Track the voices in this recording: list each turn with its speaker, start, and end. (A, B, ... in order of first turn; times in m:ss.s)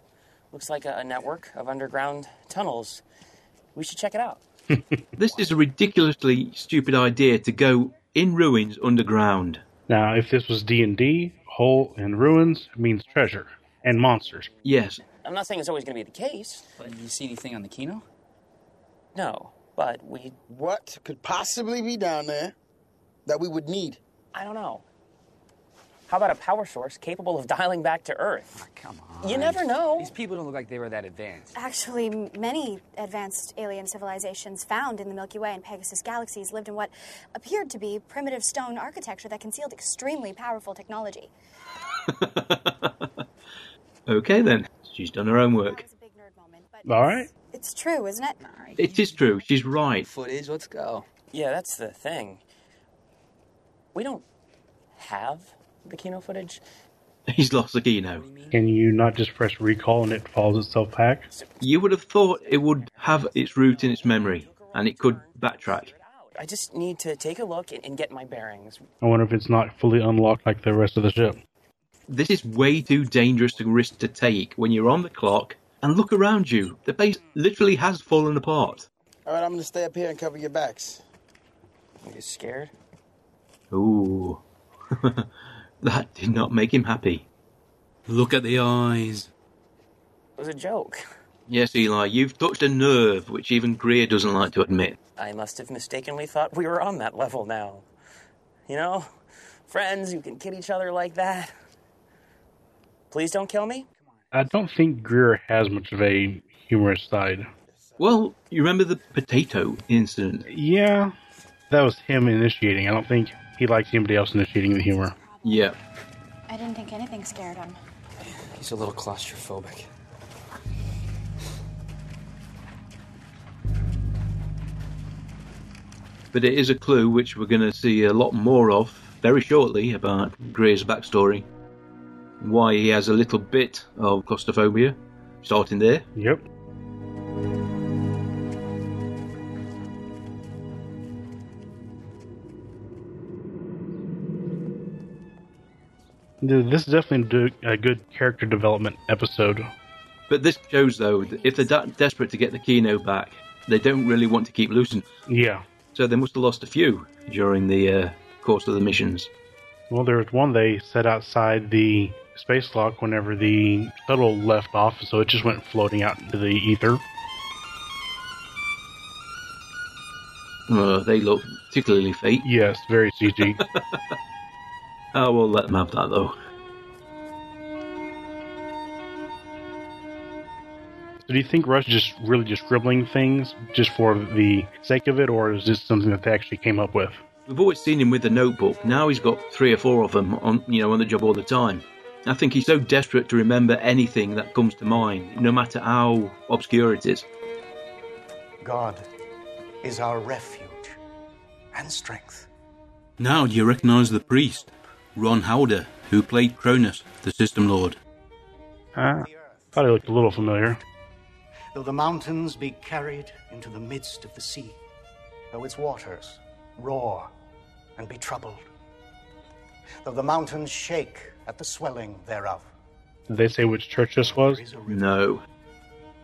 0:00.5-0:03.0 A
0:03.7-0:04.4 A
0:05.2-0:09.6 B
0:09.9-0:14.5 C
0:13.8-0:14.2 A
0:14.6-0:15.0 B
0:15.0-0:16.7 A
0:16.8-0:18.0 D
0:19.1-0:20.4 A
0:20.5-0:22.5 E
0:23.2-0:24.0 E
0:24.3-0:24.8 A
0:26.1-0:28.6 A
0:28.5-0:31.6 D
0:29.2-0:30.1 A
0:31.5-0:41.3 F
0:42.1-0:43.1 B
0:44.1-0:45.8 B
0:45.5-0:48.4 F
0:46.8-0:47.3 C
0:48.4-0:51.0 D
0:48.8-0:50.1 B
0:51.3-0:52.4 A
0:53.9-0:54.2 A
0:54.9-0:56.6 A
0:57.3-0:58.2 B
0:58.1-0:58.6 D
0:58.5-1:01.3 C
1:01.3-1:01.6 A
1:01.6-1:05.9 B
1:02.4-1:08.8 A
1:02.9-1:03.3 D
1:09.0-1:11.4 C
1:12.1-1:18.9 B
1:19.2-1:21.0 E
1:22.0-1:22.7 A
1:23.7-1:25.3 B
1:25.8-1:27.2 B
1:28.1-1:29.3 B
1:30.4-1:31.0 A
1:31.5-1:35.0 B
1:35.2-1:37.9 A
1:38.7-1:39.2 A
1:39.7-1:41.5 A
1:43.1-1:43.9 A
1:44.3-1:47.5 C
1:48.0-1:50.4 B
1:50.5-1:51.1 C
1:51.7-1:55.1 C
1:54.8-1:55.7 F
1:55.4-1:55.8 B
1:56.5-1:57.8 F
1:58.2-1:59.9 D
2:06.3-2:11.5 B
2:12.4-2:16.1 B
2:16.2-2:16.4 C
2:26.4-2:29.7 C
2:30.3-2:35.1 B
2:35.3-2:35.6 C
2:35.9-2:39.3 B
2:39.9-2:47.0 C
2:50.7-2:52.4 B
2:52.4-2:53.6 C
2:53.4-2:54.1 B
2:55.1-2:56.4 B
3:01.2-3:07.2 C
3:07.5-3:17.2 B
3:18.6-3:19.0 G
3:19.8-3:21.0 G
3:21.7-3:22.5 G
3:23.2-3:28.0 B
3:29.0-3:30.8 C
3:29.2-3:29.8 G
3:31.7-3:34.8 G
3:35.5-3:37.3 G
3:38.0-3:38.7 G
3:40.0-3:42.7 G
3:43.3-3:44.6 C
3:44.3-3:45.0 G
3:44.9-3:45.4 B